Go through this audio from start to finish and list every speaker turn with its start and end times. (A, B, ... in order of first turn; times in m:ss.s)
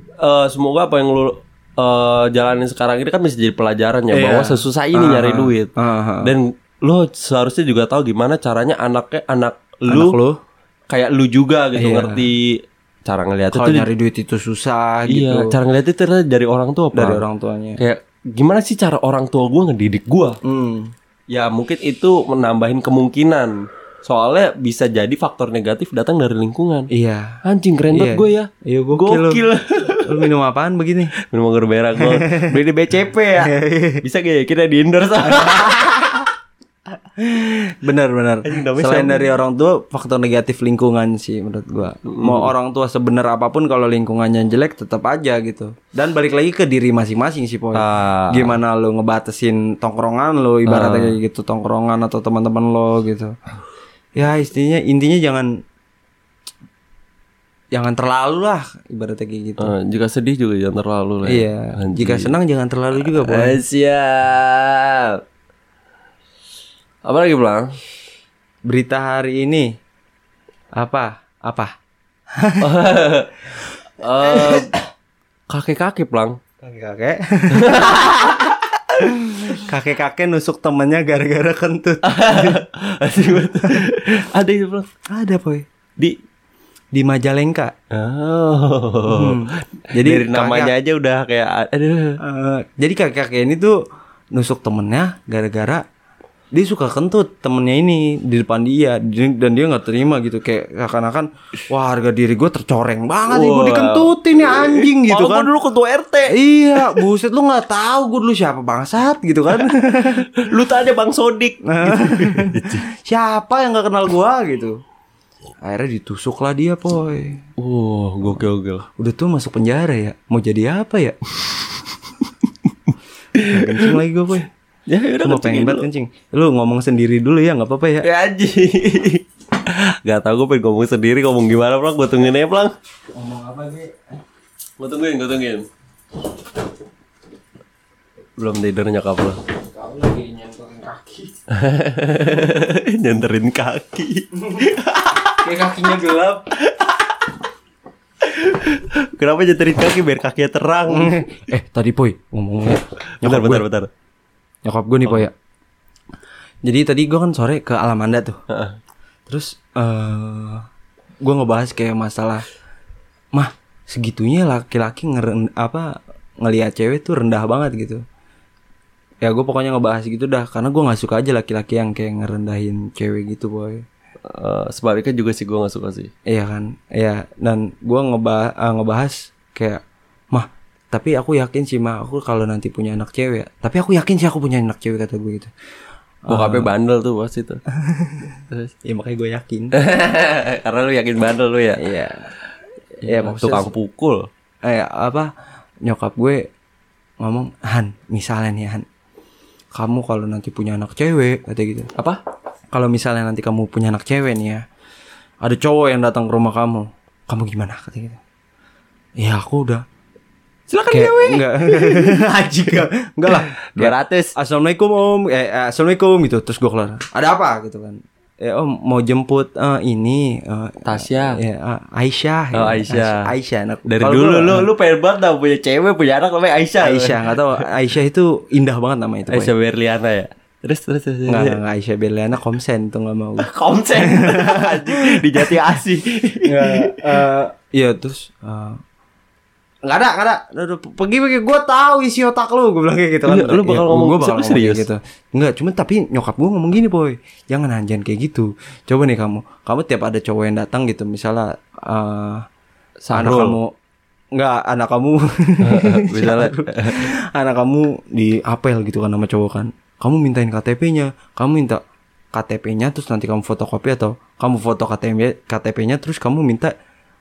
0:00.2-0:05.7 A
0:04.1-0:06.3 B
0:06.2-0:10.2 A
0:09.9-0:10.4 B
0:10.9-0:13.9 A
0:11.8-0:12.2 B
0:13.5-0:15.5 B
0:15.0-0:17.2 A
0:16.9-0:17.8 B
0:17.8-0:20.4 A
0:20.4-0:20.9 B
0:21.3-0:26.9 A
0:26.9-0:27.4 B
0:27.4-0:30.2 A
0:27.9-0:29.4 B
0:30.0-0:31.1 B
0:31.2-0:36.2 A
0:32.0-0:32.6 B
0:33.4-0:34.0 B
0:35.3-0:36.2 B
0:37.2-0:53.3 B
0:38.4-0:39.2 A
0:42.0-0:42.5 A
0:47.7-0:48.6 A
0:50.6-0:51.2 A
0:54.1-0:55.6 B
0:57.7-0:59.7 B
0:59.6-1:02.3 A
1:01.2-1:03.6 B
1:03.0-1:05.2 A
1:07.0-1:07.7 A
1:08.6-1:09.8 B
1:10.8-1:11.7 B
1:12.3-1:12.8 B
1:12.6-1:13.4 A
1:14.0-1:14.7 A
1:14.2-1:14.8 B
1:15.5-1:16.4 A
1:16.6-1:22.6 B
1:17.5-1:18.4 A
1:22.0-1:24.9 A
1:25.1-1:25.7 B
1:26.9-1:27.7 B
1:27.9-1:32.2 A
1:29.1-1:30.7 B
1:32.2-1:35.8 B
1:36.5-1:45.5 B
1:43.3-1:47.0 A
1:46.3-1:50.3 B
1:49.7-1:52.9 A
1:51.6-1:54.8 B
1:55.6-1:57.4 B
1:57.6-1:58.8 A
1:59.0-2:01.2 B
2:03.3-2:04.0 A
2:03.4-2:04.5 B
2:04.9-2:05.9 A
2:05.2-2:08.1 B
2:08.0-2:12.7 A
2:13.1-2:14.1 B
2:14.8-2:15.7 A
2:18.4-2:19.4 A
2:19.5-2:21.3 B
2:21.5-2:25.4 A
2:25.4-2:26.4 B
2:28.2-2:31.4 A
2:30.9-2:33.6 B
2:33.2-2:33.9 A
2:34.6-2:35.3 B
2:36.6-2:38.4 B
2:38.5-2:38.8 A
2:39.3-2:40.6 B
2:41.2-2:42.4 B
2:43.3-2:48.0 B
2:49.2-2:53.8 B
2:54.3-2:56.1 A
2:56.2-3:05.5 B
3:06.2-3:06.7 B
3:06.3-3:07.6 A
3:07.7-3:09.8 B
3:09.7-3:11.8 A
3:11.8-3:12.3 B
3:13.0-3:13.7 B
3:13.0-3:14.3 A
3:14.6-3:15.3 B
3:15.8-3:16.5 B
3:17.2-3:18.9 B
3:19.7-3:21.9 B
3:22.7-3:24.6 B
3:25.4-3:28.2 B
3:29.2-3:29.8 B
3:30.7-3:32.2 A
3:30.9-3:44.7 B
3:33.3-3:34.3 A
3:40.8-3:41.4 A
3:42.5-3:43.3 A
3:43.9-3:47.6 A
3:46.8-3:49.5 B
3:49.3-3:51.6 A
3:51.3-3:55.5 B
3:53.4-3:57.0 A
3:56.4-3:58.8 B
3:59.8-4:12.4 B
4:03.2-4:04.9 A
4:13.0-4:13.6 A
4:13.1-4:13.7 B
4:14.3-4:21.8 B
4:15.6-4:17.1 A
4:22.3-4:26.7 B